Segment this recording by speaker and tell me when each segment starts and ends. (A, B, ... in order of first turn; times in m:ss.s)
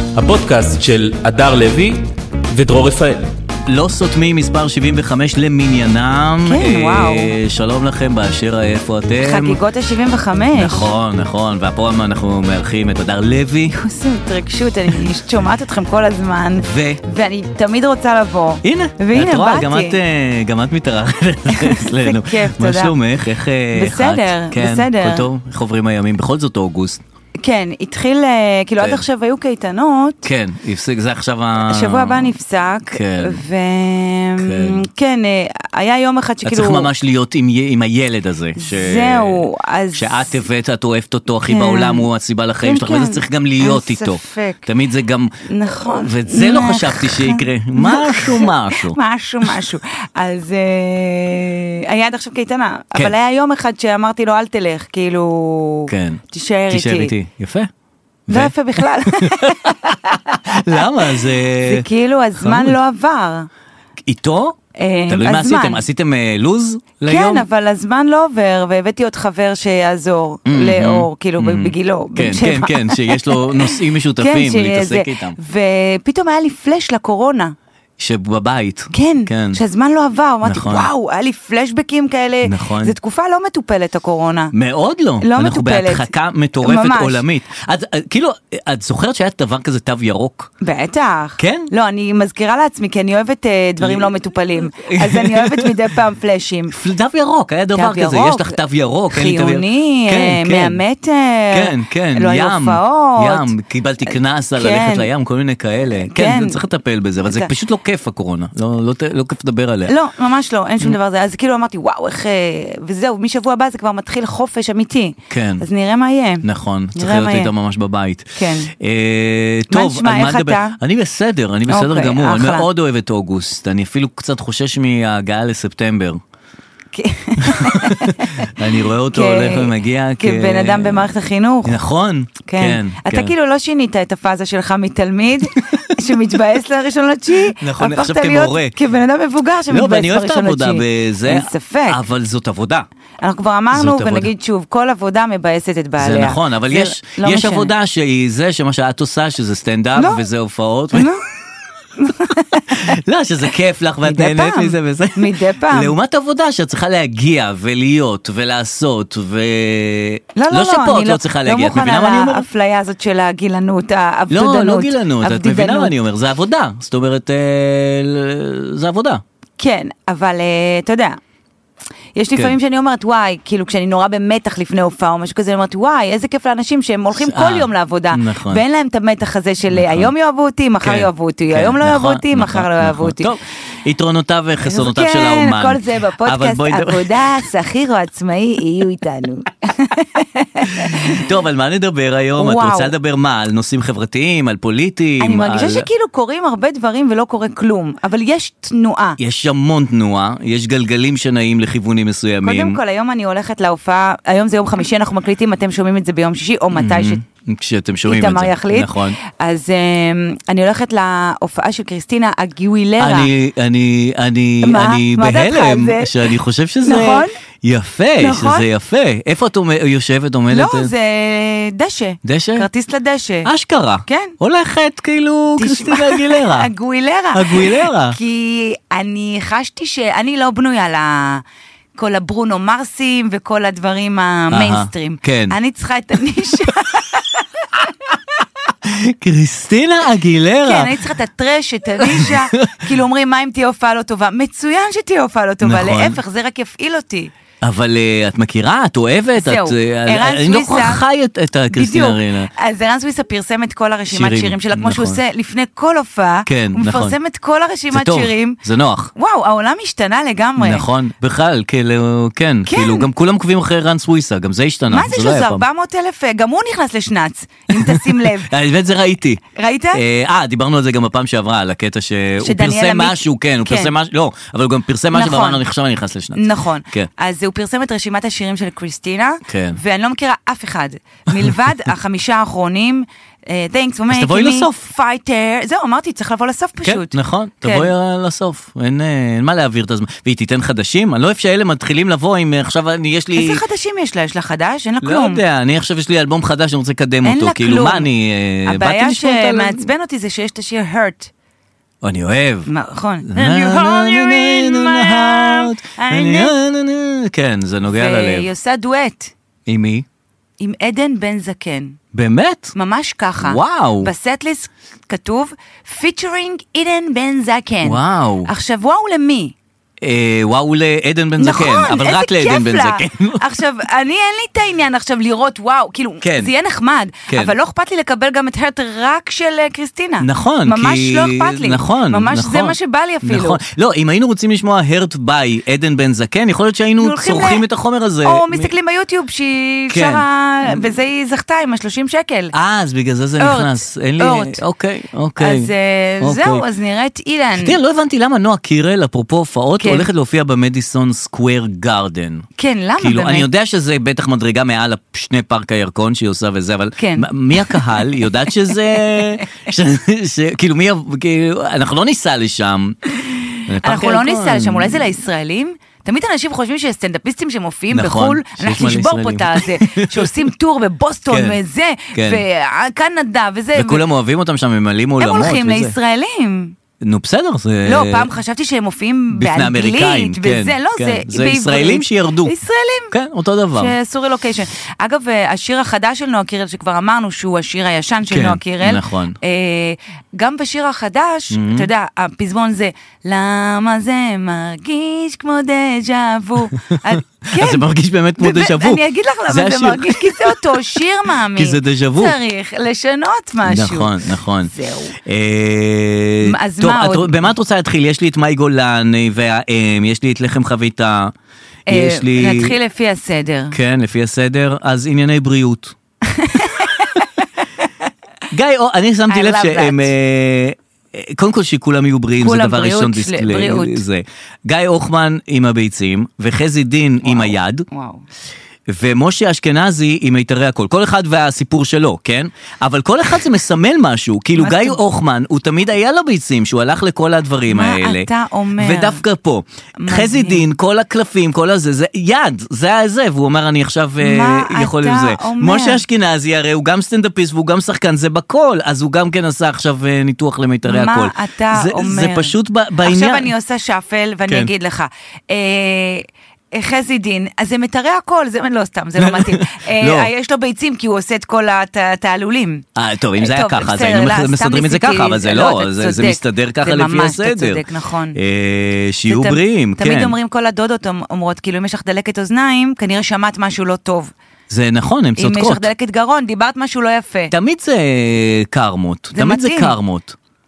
0:00.2-0:03.3 A
0:03.7-0:09.6 B
0:06.4-0:07.3 C
0:09.2-0:10.9 C
0:10.6-0:13.8 B
0:13.7-0:20.0 C
0:16.6-0:17.0 B
0:18.6-0:27.0 B
0:21.5-0:23.0 C
0:23.7-0:25.3 C
0:27.4-0:30.2 C
0:28.8-0:29.0 B
0:30.2-0:32.4 B
0:31.6-0:36.9 C
0:32.9-0:33.4 B
0:34.4-0:34.8 B
0:36.4-0:49.0 B
0:38.6-0:40.4 C
0:41.5-0:42.1 C
0:42.6-0:44.7 C
0:45.4-0:57.1 C
0:55.9-0:57.7 B
0:58.3-1:01.9 B
0:58.3-1:00.9 C
1:01.6-1:03.5 C
1:02.4-1:02.8 B
1:04.0-1:04.6 B
1:04.8-1:05.8 C
1:05.1-1:07.5 B
1:07.1-1:17.6 C
1:10.5-1:15.4 B
1:18.0-1:19.6 B
1:18.9-1:24.5 C
1:20.4-1:20.9 B
1:22.4-1:23.0 B
1:24.5-1:30.5 B
1:25.2-1:26.1 C
1:26.6-1:27.2 C
1:30.6-1:36.8 C
1:31.4-1:31.7 B
1:33.8-1:34.1 B
1:34.6-1:35.9 B
1:36.7-1:40.8 B
1:37.7-1:43.5 C
1:41.5-1:49.9 B
1:44.1-1:45.1 C
1:45.9-1:46.6 C
1:47.2-1:47.5 C
1:49.9-1:57.5 C
1:55.3-1:55.6 B
1:56.4-2:06.2 B
1:58.4-1:58.7 C
1:59.7-2:00.8 C
2:01.7-2:02.7 C
2:06.9-2:08.6 C
2:07.4-2:11.1 B
2:09.1-2:11.8 C
2:11.6-2:13.3 B
2:12.4-2:22.0 C
2:17.6-2:18.8 B
2:19.7-2:22.9 B
2:23.2-2:27.7 C
2:23.7-2:24.3 B
2:26.0-2:31.1 B
2:30.0-2:30.2 C
2:30.9-2:31.2 C
2:32.0-2:33.0 C
2:32.7-2:42.5 B
2:34.0-2:35.9 C
2:40.4-2:45.9 C
2:44.3-2:49.2 B
2:49.6-2:51.2 C
2:52.2-3:03.3 C
2:57.2-2:58.6 B
2:59.7-3:00.1 B
3:00.8-3:07.3 B
3:04.7-3:11.3 C
3:10.8-3:15.9 B
3:12.4-3:12.9 C
3:15.2-3:19.2 C
3:19.2-3:22.8 B
3:22.4-3:27.2 C
3:26.7-3:29.2 B
3:28.1-3:33.3 C
3:33.0-3:40.9 B
3:34.6-3:36.3 C
3:36.8-3:37.4 C
3:38.2-3:38.7 C
3:40.5-3:43.5 C
3:42.2-3:42.7 B
3:43.4-3:46.7 B
3:44.1-3:44.3 C
3:45.6-3:51.4 C
3:47.3-3:48.2 B
3:52.0-3:57.8 C
3:54.5-3:55.6 B
3:58.8-4:00.9 B
4:00.6-4:07.3 C
4:02.0-4:02.8 B
4:05.6-4:06.2 B
4:07.6-4:12.5 B
4:09.4-4:11.0 C
4:11.7-4:18.6 C
4:14.1-4:15.2 B
4:16.5-4:17.1 B
4:17.9-4:19.1 B
4:19.2-4:20.8 C
4:20.6-4:25.6 B
4:22.7-4:23.1 C
4:24.9-4:28.5 C
4:27.7-4:37.1 B
4:29.6-4:30.0 C
4:32.4-4:33.9 C
4:35.1-4:35.6 C
4:36.4-4:47.9 C
4:39.5-4:39.8 B
4:44.1-4:44.9 B
4:46.8-4:53.6 B
4:53.4-4:55.4 C
4:55.0-4:59.9 B
4:57.2-4:58.1 C
4:58.6-5:01.3 C
5:02.0-5:02.7 B
5:02.7-5:06.6 C
5:03.3-5:08.5 B
5:07.9-5:09.3 C
5:09.7-5:10.1 B
5:10.6-5:12.0 C
5:12.1-5:12.7 B
5:12.8-5:19.6 C
5:13.4-5:14.1 B
5:17.8-5:18.5 B
5:20.0-5:23.4 B
5:21.4-5:33.6 C
5:26.2-5:26.5 B
5:27.3-5:27.6 B
5:30.2-5:38.7 B
5:37.0-5:37.7 C
5:38.2-5:42.5 C
5:39.9-5:40.9 B
5:42.5-5:46.6 B
5:43.4-5:44.6 C
5:45.4-5:47.8 C
5:47.6-5:52.5 B
5:49.8-5:50.1 C
5:52.6-5:53.5 C
5:53.0-6:03.0 B
5:57.0-5:59.6 C
6:03.3-6:14.0 C
6:03.7-6:05.2 B
6:07.9-6:10.3 B
6:11.3-6:11.6 B
6:12.1-6:12.4 B
6:13.8-6:16.0 B
6:15.2-6:16.8 C
6:17.0-6:18.3 B
6:17.8-6:23.1 C
6:19.4-6:22.5 B
6:23.1-6:24.0 B
6:23.8-6:37.8 C
6:28.3-6:29.4 B
6:31.5-6:31.9 B
6:37.1-6:40.6 B
6:38.4-6:45.2 C
6:41.5-6:42.4 B
6:43.6-6:51.3 B
6:46.4-6:47.5 C
6:51.9-6:53.8 C
6:51.9-6:52.8 B
6:53.7-6:56.0 B
6:56.3-6:57.2 C
6:58.5-7:07.9 B
6:59.3-7:00.1 C
7:02.4-7:04.0 C
7:07.2-7:08.2 C
7:08.9-7:33.5 B
7:14.6-7:15.0 C
7:17.7-7:19.2 C
7:20.0-7:20.6 C
7:24.2-7:26.0 C
7:30.9-7:42.8 C
7:39.2-7:40.3 B
7:43.0-7:47.8 B
7:43.4-7:48.4 C
7:48.4-7:50.4 B
7:49.3-7:54.3 C
7:54.7-7:55.9 B
7:55.4-7:57.5 C
7:57.5-8:00.4 B
7:59.3-8:00.0 C